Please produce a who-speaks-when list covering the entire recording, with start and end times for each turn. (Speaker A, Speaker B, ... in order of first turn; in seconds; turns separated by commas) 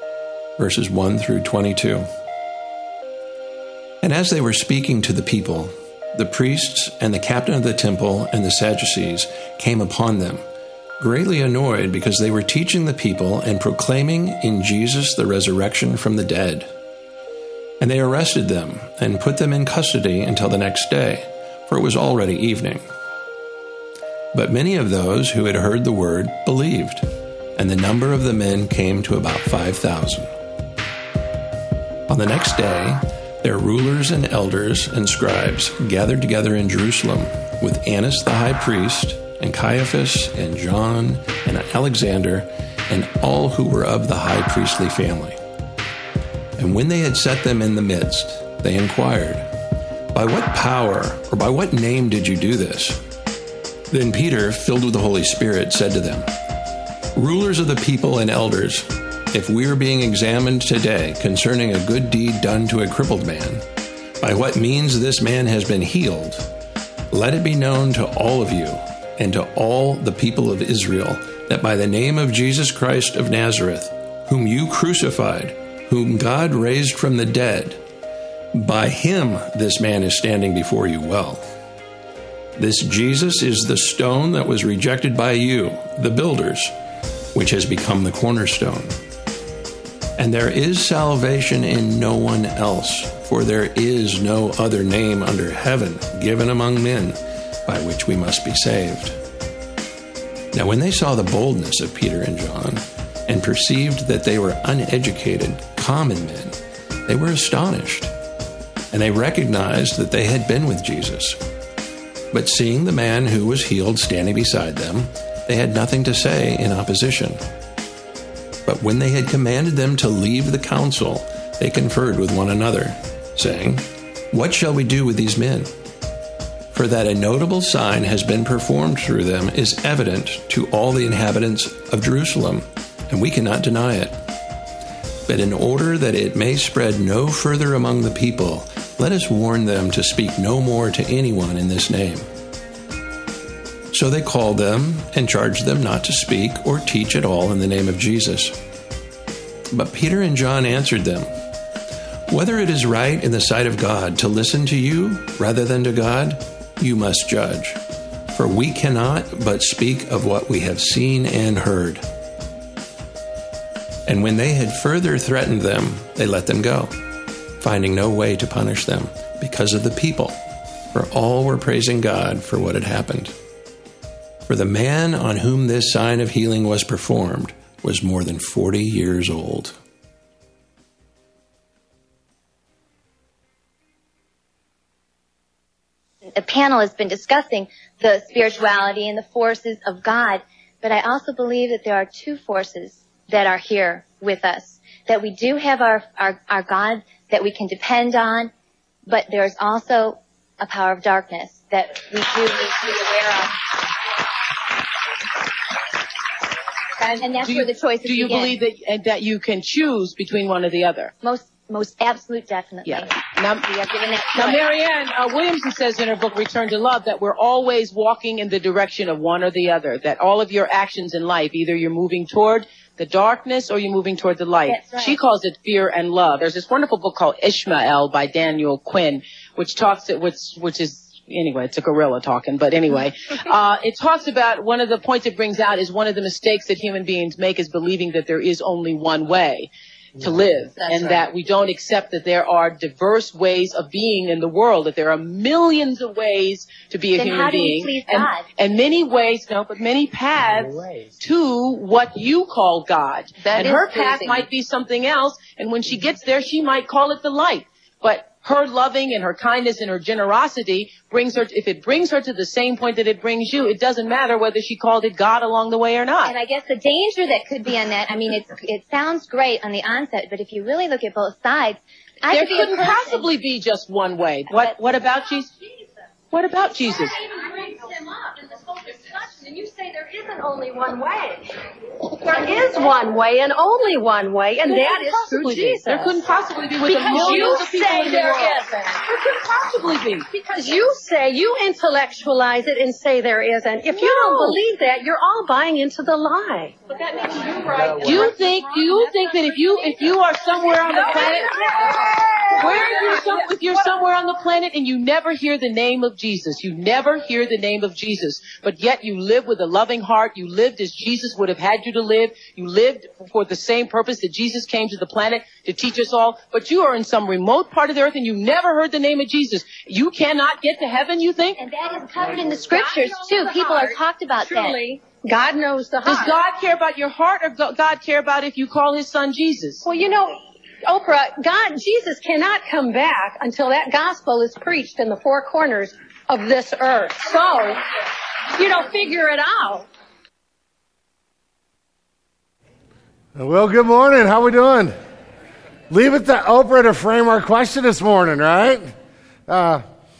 Speaker A: 0.6-2.1, Speaker A: 4.0-10.4, Speaker A: 11.0-16.7, Speaker A: 17.8-22.8, Speaker A: 24.3-30.3, Speaker A: 32.1-45.4, Speaker A: 46.6-49.5, Speaker A: 50.1-53.0, Speaker A: 53.9-56.3, Speaker A: 57.1-63.6, Speaker A: 64.2-66.5, Speaker A: 67.1-77.8, Speaker A: 78.5-81.5, Speaker A: 82.5-86.7, Speaker A: 87.3-89.0, Speaker A: 90.2-99.2, Speaker A: 100.5-108.1, Speaker A: 108.9-111.4, Speaker A: 112.3-117.4, Speaker A: 118.7-125.7, Speaker A: 126.7-134.2, Speaker A: 135.2-142.3, Speaker A: 143.9-148.6, Speaker A: 149.7-151.3, Speaker A: 152.3-162.1, Speaker A: 164.1-167.0, Speaker A: 167.6-173.3, Speaker A: 174.5-179.8, Speaker B: 186.3-198.5, Speaker B: 199.1-203.7, Speaker C: 207.0-211.1, Speaker B: 207.1-208.6, Speaker B: 211.2-214.6, Speaker C: 212.8-266.3, Speaker B: 224.7-225.2, Speaker B: 247.2-248.4, Speaker B: 253.4-254.4, Speaker B: 266.2-273.3, Speaker C: 272.3-275.5, Speaker C: 276.3-277.2, Speaker D: 277.1-286.2, Speaker C: 284.7-290.3, Speaker D: 286.8-288.9, Speaker D: 290.3-298.4, Speaker C: 293.9-294.6, Speaker C: 297.8-321.6, Speaker D: 301.6-302.6, Speaker B: 321.6-324.8, Speaker D: 322.7-326.3, Speaker C: 326.0-329.8, Speaker D: 329.8-339.9, Speaker E: 343.4-344.9, Speaker E: 345.9-348.9, Speaker E: 349.5-349.8